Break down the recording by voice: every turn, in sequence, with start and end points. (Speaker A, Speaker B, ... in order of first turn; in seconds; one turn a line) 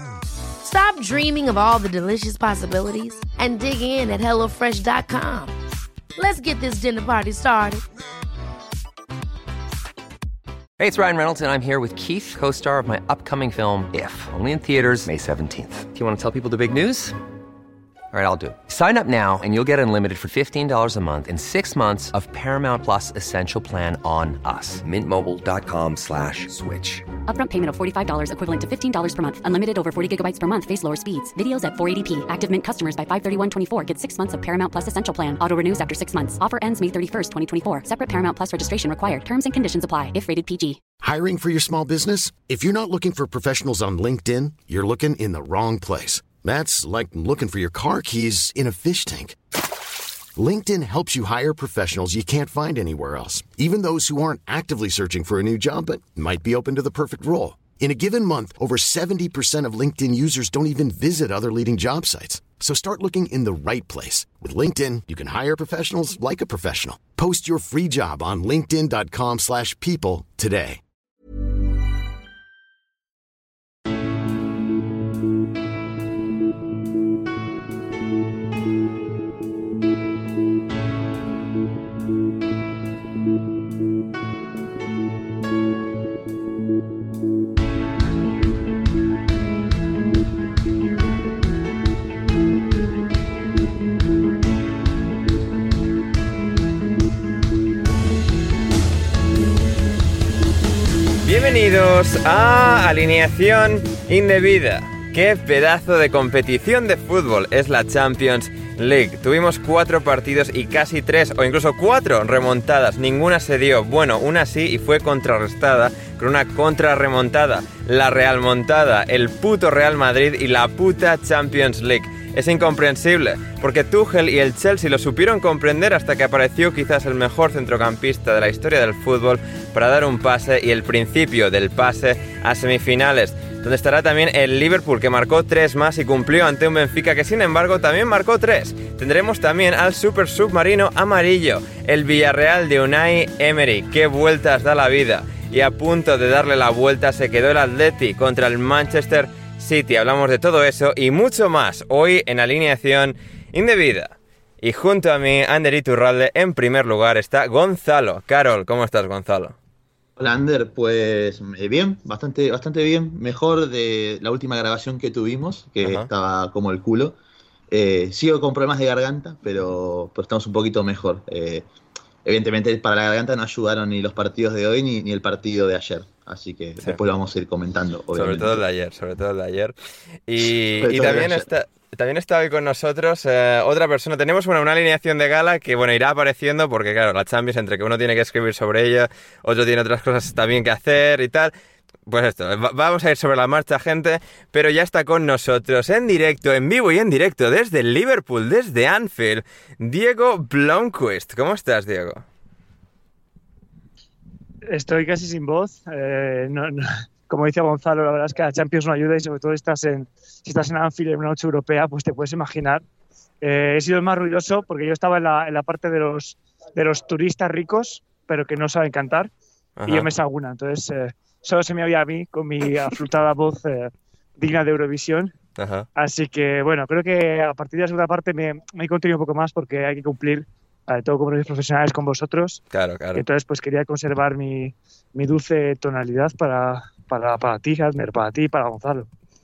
Speaker A: 0.6-5.5
Speaker A: 6.2-7.8
Speaker B: 10.8-17.2
Speaker B: 18.1-27.1
Speaker C: 27.2-40.8
Speaker D: 41.0-49.4
Speaker D: 50.4-70.8
Speaker E: 101.2-159.6
Speaker F: 160.2-167.2
Speaker E: 165.8-166.1
Speaker F: 167.7-171.7
Speaker F: 172.2-178.6
Speaker E: 178.1-179.7
Speaker E: 180.3-191.5
Speaker F: 180.8-181.5
Speaker E: 192.1-202.2
Speaker G: 204.7-212.8
Speaker G: 213.4-219.3
Speaker E: 219.8-220.1
Speaker G: 219.9-225.4
Speaker E: 225.6-225.9
Speaker G: 225.9-232.6
Speaker E: 232.7-233.2
Speaker G: 233.1-239.1